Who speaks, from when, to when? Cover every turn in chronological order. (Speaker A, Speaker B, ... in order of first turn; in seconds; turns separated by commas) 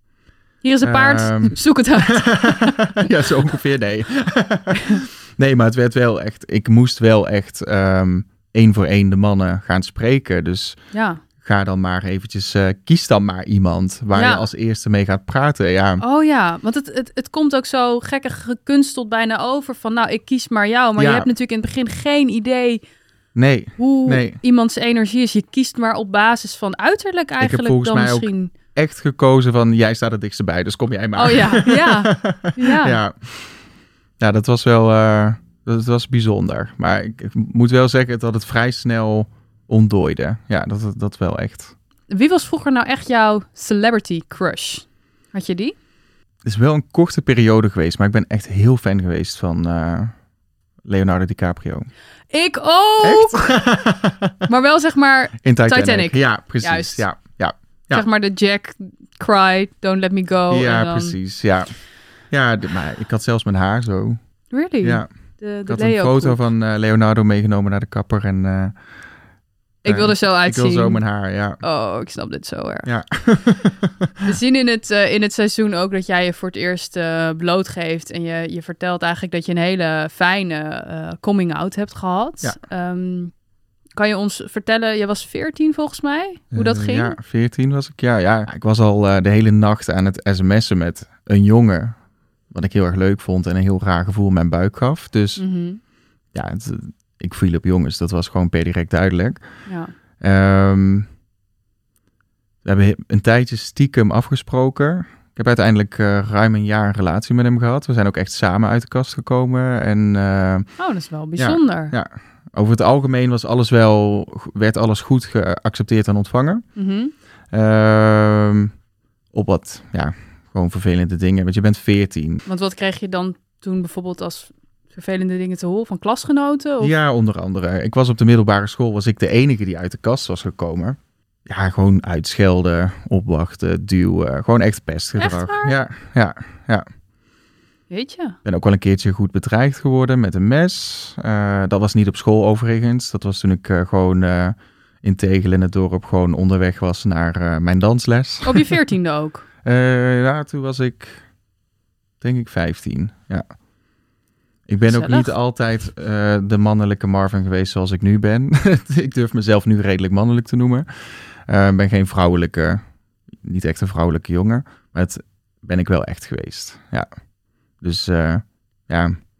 Speaker A: 0.6-2.9, Speaker B: 0.8-10.8, Speaker A: 10.9-11.2, Speaker B: 11.4-16.0, Speaker A: 14.1-14.5, Speaker A: 16.0-22.8, Speaker B: 21.0-21.3, Speaker B: 23.3-24.4, Speaker A: 23.8-28.5, Speaker B: 27.4-33.5, Speaker A: 31.1-33.0, Speaker B: 34.2-41.7, Speaker A: 42.1-45.7, Speaker B: 46.4-50.1, Speaker B: 50.9-51.9, Speaker A: 52.3-53.7, Speaker B: 53.0-54.4, Speaker A: 54.5-57.0, Speaker B: 55.4-58.0, Speaker A: 57.9-61.1, Speaker B: 60.5-61.7, Speaker B: 62.3-64.2, Speaker A: 64.5-66.5, Speaker B: 65.7-68.7, Speaker A: 69.8-71.0, Speaker B: 69.8-71.6, Speaker A: 71.6-72.9, Speaker B: 72.8-74.3, Speaker A: 74.2-83.3, Speaker A: 84.0-87.2, Speaker B: 86.5-92.0, Speaker B: 92.5-95.4, Speaker A: 95.4-95.8, Speaker B: 96.3-99.4, Speaker A: 99.7-99.9, Speaker B: 100.2-101.1, Speaker B: 102.6-110.7, Speaker A: 110.8-111.9, Speaker B: 111.4-116.6, Speaker A: 116.8-117.1, Speaker B: 117.5-118.7, Speaker B: 119.3-122.4, Speaker A: 122.5-126.9, Speaker B: 126.8-136.8, Speaker A: 135.2-135.7, Speaker A: 137.9-138.4, Speaker B: 138.4-148.7, Speaker A: 148.4-149.4, Speaker B: 149.6-151.2, Speaker B: 152.2-153.4, Speaker B: 154.7-160.9, Speaker A: 154.9-155.3, Speaker B: 161.5-162.8, Speaker B: 163.4-167.1, Speaker B: 167.8-169.2